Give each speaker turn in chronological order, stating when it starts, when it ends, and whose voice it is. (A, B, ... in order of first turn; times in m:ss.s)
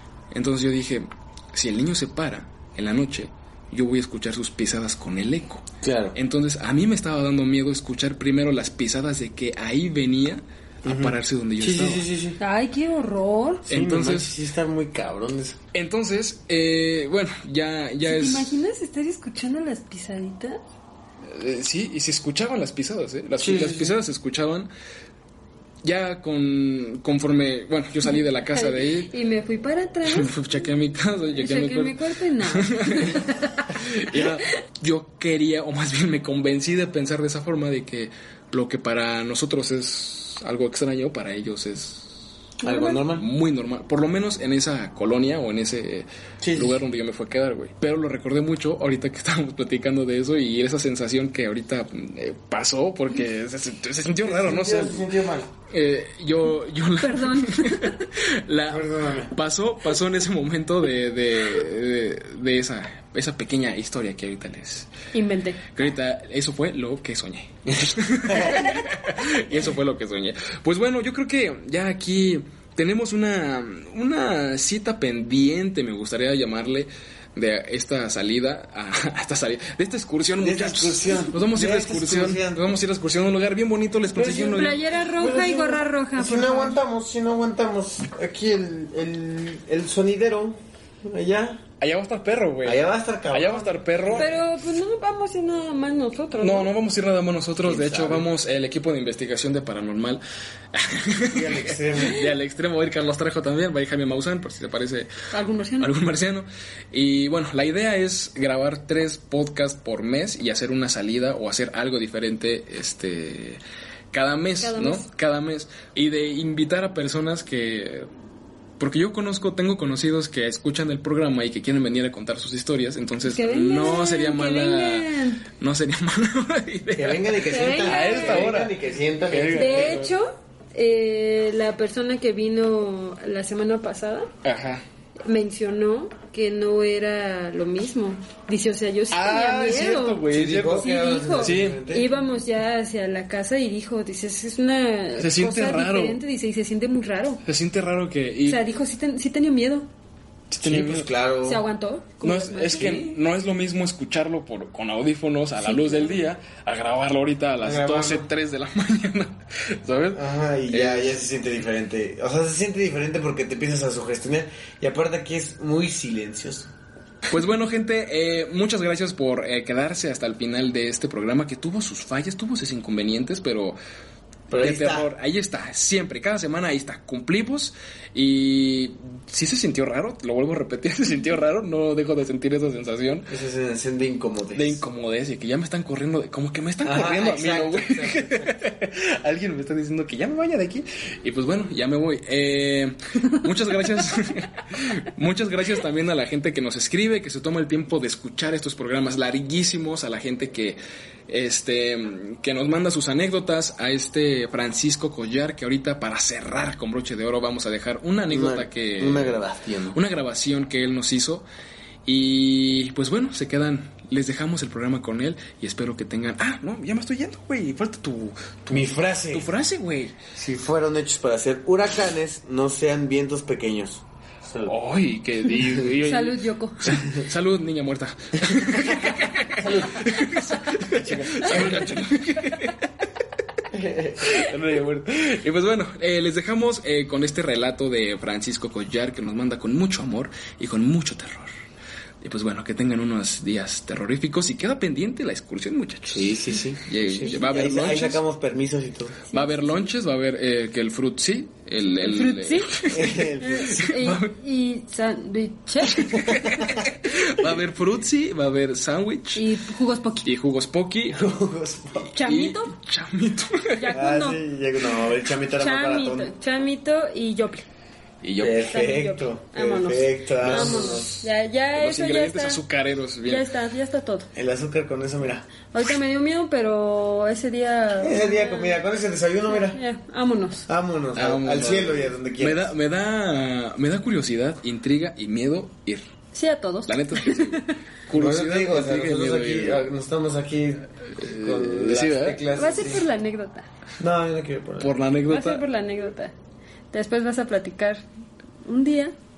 0:00.3-0:12.1 A
0:05.8-0:06.2 B
0:10.8-0:12.4 B
0:12.4-0:13.6 C
0:13.6-0:15.6 B
0:13.7-0:14.3 A
0:15.7-0:18.6 A
0:18.0-0:20.6 C
0:21.2-0:24.7 A
0:23.4-0:24.0 B
0:25.8-0:29.1 A
0:28.5-0:30.3 C
0:30.0-0:42.3 A
0:31.4-0:34.2 C
0:42.6-0:43.0 C
0:42.6-0:43.2 B
0:43.0-0:55.1 A
0:46.4-0:46.8 B
0:54.2-0:55.5 B
0:55.7-1:04.9 A
0:57.0-0:58.0 C
0:58.7-0:59.3 B
1:05.1-1:05.6 C
1:05.7-1:24.8 A
1:20.4-1:22.8 B
1:24.1-1:31.6 B
1:24.5-1:26.8 C
1:31.8-1:34.4 A
1:32.6-1:34.3 B
1:34.2-1:36.7 C
1:36.4-1:40.2 A
1:37.6-1:38.3 B
1:40.7-1:45.1 A
1:41.3-1:42.2 B
1:45.3-1:45.9 C
1:45.8-1:53.6 A
1:54.1-1:58.1 A
1:54.6-1:55.1 C
1:58.8-2:08.7 A
2:03.2-2:05.4 C
2:07.0-2:10.1 B
2:07.4-2:08.5 C
2:09.3-2:10.1 A
2:09.5-2:14.3 C
2:14.4-2:14.8 A
2:15.2-2:27.4 C
2:19.1-2:21.8 A
2:20.3-2:22.1 B
2:25.2-2:26.2 A
2:27.4-2:28.6 A
2:28.4-2:29.9 C
2:30.5-2:31.1 A
2:30.6-2:31.6 B
2:31.4-2:33.1 C
2:32.2-2:41.2 A
2:32.7-2:33.1 B
2:35.6-2:36.2 C
2:37.6-2:38.3 B
2:40.1-2:46.7 B
2:47.3-2:53.8 A
2:54.5-2:55.1 B
2:54.6-3:03.3 A
3:03.3-3:04.8 B
3:04.5-3:29.4 A
3:06.8-3:08.6 B
3:28.3-3:30.0 B
3:29.9-3:31.4 A
3:32.0-3:40.1 A
3:38.7-3:39.5 B
3:40.3-3:44.7 B
3:44.6-3:52.9 A
3:46.0-3:47.0 C
3:49.6-3:50.0 B
3:50.9-3:52.0 B
3:53.7-3:54.3 B
3:54.2-4:01.5 A
4:02.2-4:08.2 A
4:06.1-4:09.2 B
4:09.3-4:09.8 C
4:09.3-4:14.3 A
4:11.9-4:16.8 C
4:12.9-4:13.8 B
4:15.9-4:19.4 A
4:19.3-4:20.3 C
4:20.2-4:21.3 A
4:21.1-4:22.1 B
4:22.0-4:23.9 A
4:22.1-4:22.7 C
4:23.7-4:24.4 C
4:23.9-4:26.3 B
4:25.5-4:27.6 C
4:28.2-4:28.7 A
4:28.4-4:31.2 B
4:28.5-4:32.6 C
4:30.4-4:31.2 A
4:31.7-4:33.5 A
4:33.2-4:34.3 C
4:34.3-4:35.5 B
4:35.7-4:38.8 C
4:38.0-4:39.8 B
4:39.5-4:40.7 C
4:40.7-4:42.7 B
4:41.1-4:46.0 A
4:46.3-4:47.7 C
4:46.9-4:49.8 A
4:48.1-4:53.0 B
4:51.1-4:52.4 A
4:52.5-4:53.7 C
4:54.0-4:54.9 B
4:54.8-4:55.6 A
4:55.3-4:56.3 C
4:56.9-4:58.1 C
4:58.6-4:59.1 C